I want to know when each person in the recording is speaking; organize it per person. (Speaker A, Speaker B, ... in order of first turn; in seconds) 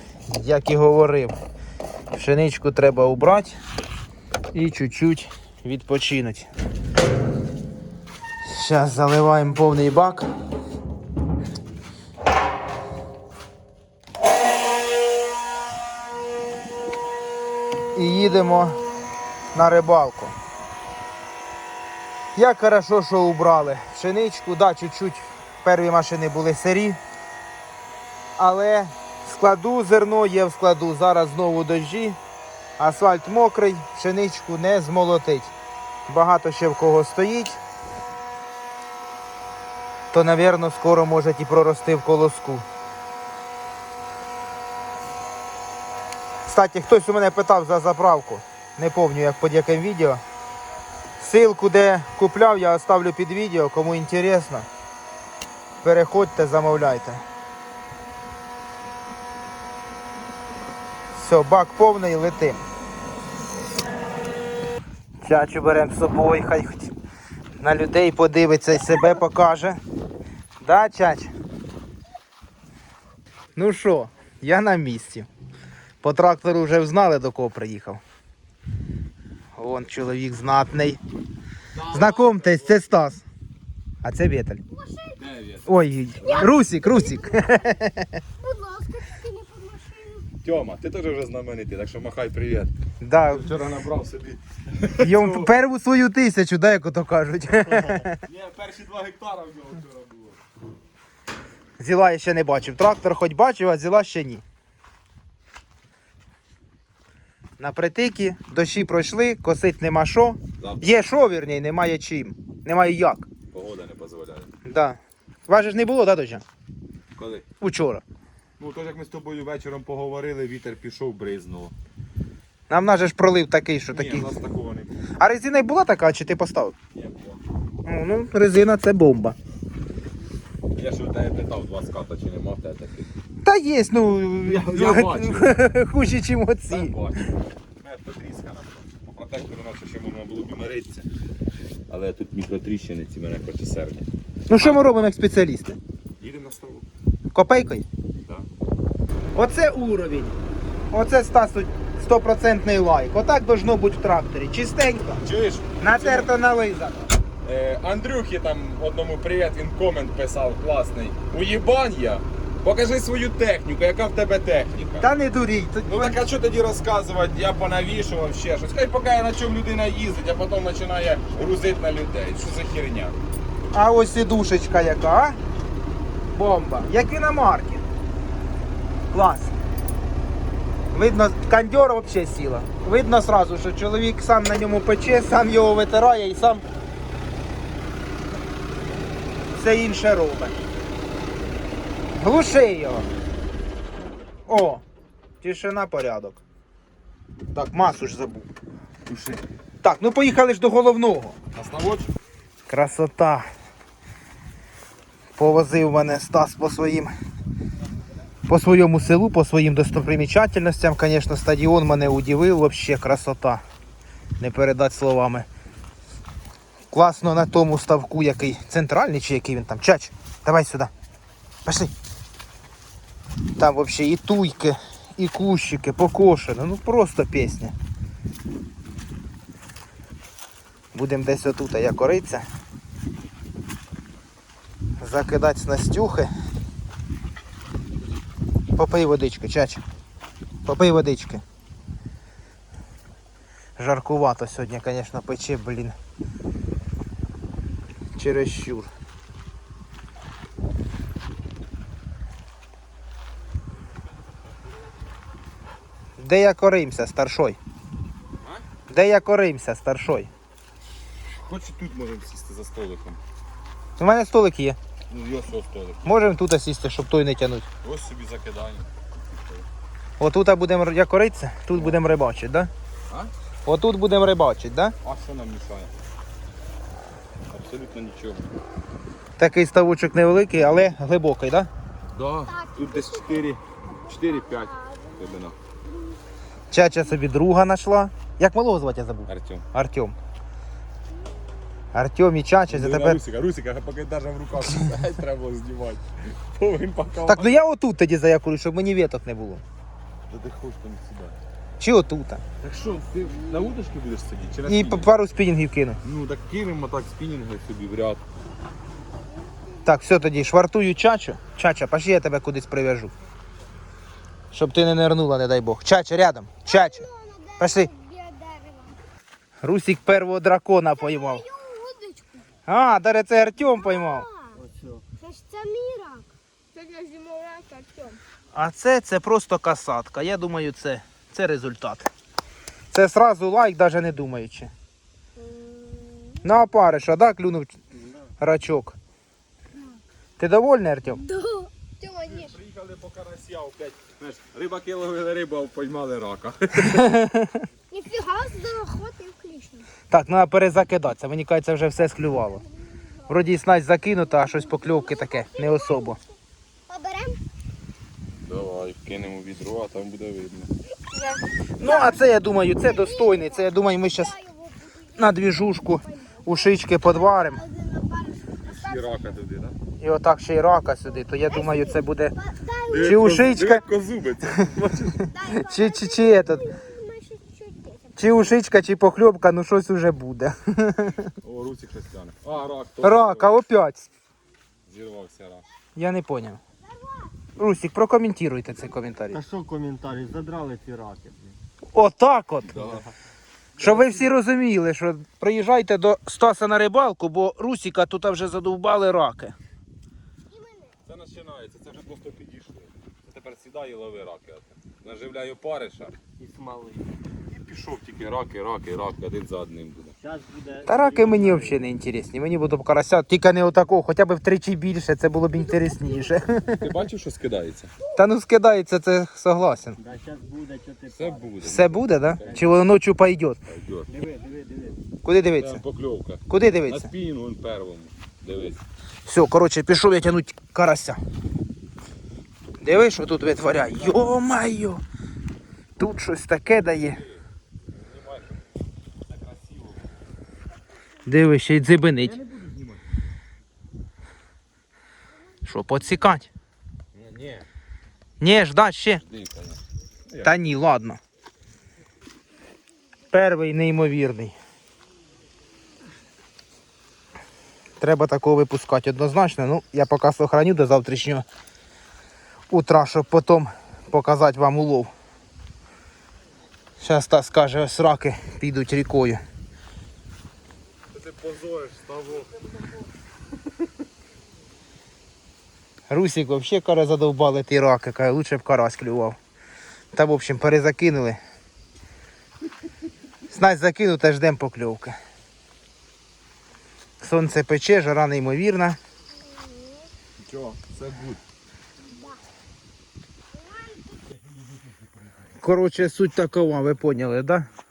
Speaker A: 0.3-1.3, 2.1-3.5, 4.5-6.5, 8.4-10.3, 17.9-18.8, 19.5-20.3, 22.3-27.0, 28.4-32.2, 32.8-35.5, 36.1-37.6, 40.1-42.6, 46.5-50.2, 51.2-54.7, 55.8-57.2, 61.1-62.6, 65.2-66.9, 67.6-69.8, 70.6-71.3, 73.5-75.3, 76.0-78.0, 79.5-81.0, 81.9-83.2, 84.0-84.6, 85.7-88.2, 93.0-93.5, 95.0-98.2, 101.8-104.4, 107.6-113.3, 114.6-116.4, 117.6-118.0, 122.7-124.3, 125.2-126.7, 127.8-129.3, 133.4-136.9, 144.5-145.8, 147.3-147.8, 149.3-150.3, 150.9-155.2, 155.8-157.1, 165.0-166.1, 173.7-175.4, 176.3-177.8, 179.1-179.5, 180.9-186.6, 189.5-190.5, 192.2-193.1, 194.5-194.8, 195.4-196.4, 197.5-198.5, 199.8-201.4, 202.7-203.4, 205.4-207.1, 208.5-213.6, 214.4-215.5, 216.9-220.9, 221.6-221.9, 223.6-227.7, 230.9-232.4, 235.0-236.3, 238.8-239.8, 240.7-241.4, 243.8-245.9, 248.2-248.9, 256.2-257.6, 258.9-260.3, 264.0-264.8, 266.0-267.7, 270.2-272.7, 273.6-274.9, 279.4-281.7, 286.7-290.1, 291.9-293.2, 297.2-299.6, 301.8-302.4, 304.7-306.0, 309.8-313.1, 314.5-317.0, 317.6-317.9, 319.6-321.4, 322.6-324.3, 328.5-332.1, 332.9-334.7, 336.4-337.8, 338.4-338.9, 340.4-341.2, 346.9-347.6, 350.1-352.6, 353.3-356.2, 361.8-364.3, 365.2-367.6, 370.0-372.3, 373.0-373.8, 375.6-376.6, 378.2-381.3, 383.0-384.1, 385.9-386.6, 387.6-389.4, 391.9-393.0, 393.8-399.5, 410.9-416.8, 418.1-420.0, 421.6-423.6, 425.2-425.8, 426.5-427.1, 429.2-431.2, 432.8-435.0, 436.0-437.2, 441.2-442.4, 445.6-446.5, 448.4-449.2, 450.4-451.2, 453.3-454.5, 458.0-461.4, 462.7-465.1, 467.0-469.4, 476.1-479.4, 480.1-481.4, 483.5-485.1, 487.2-489.0, 495.6-497.7
Speaker B: 81.7-82.8, 85.2-85.8, 90.4-92.7, 93.3-95.5, 98.2-100.4, 110.6-111.0, 113.5-114.5, 117.2-117.5, 118.6-121.7, 123.9-125.2, 126.9-127.4, 130.7-133.1, 134.4-135.7, 136.7-141.1, 141.9-144.9, 146.2-146.9, 148.2-148.5, 155.2-156.3, 157.4-165.1, 165.9-173.2, 199.1-199.4, 201.5-202.1, 261.3-263.2, 265.1-266.2, 267.8-269.6, 271.7-272.0, 275.0-275.9, 277.5-278.5, 282.1-285.6, 289.3-289.6, 292.7-297.6, 300.3-301.4, 302.6-305.1, 306.0-308.2, 342.3-347.1, 358.4-360.7, 368.7-369.8, 372.9-375.3, 381.4-383.6, 384.9-385.6, 392.7-393.0, 401.0-406.2, 407.4-410.1, 416.7-417.9, 421.1-422.6, 423.7-424.2, 425.5-428.8, 438.0-438.6, 442.2-443.2, 447.1-447.6, 449.2-450.5, 471.1-472.6, 490.4-491.4
Speaker C: 84.7-85.2, 86.2-87.7, 88.4-90.3, 282.5-285.4, 316.6-319.0, 320.9-322.5, 323.7-324.6, 325.2-328.2, 335.4-336.4, 341.2-342.5, 347.9-349.9, 354.4-356.3, 356.9-357.4, 361.1-362.2, 362.8-369.1, 371.3-373.1, 375.2-378.3, 386.9-387.3, 400.5-400.9, 415.5-416.4, 489.5-490.1, 492.0-492.4, 493.6-494.1
Speaker D: 324.6-325.0, 389.3-391.6, 393.8-394.2, 406.4-407.1, 410.2-411.8, 420.0-421.4, 424.1-425.0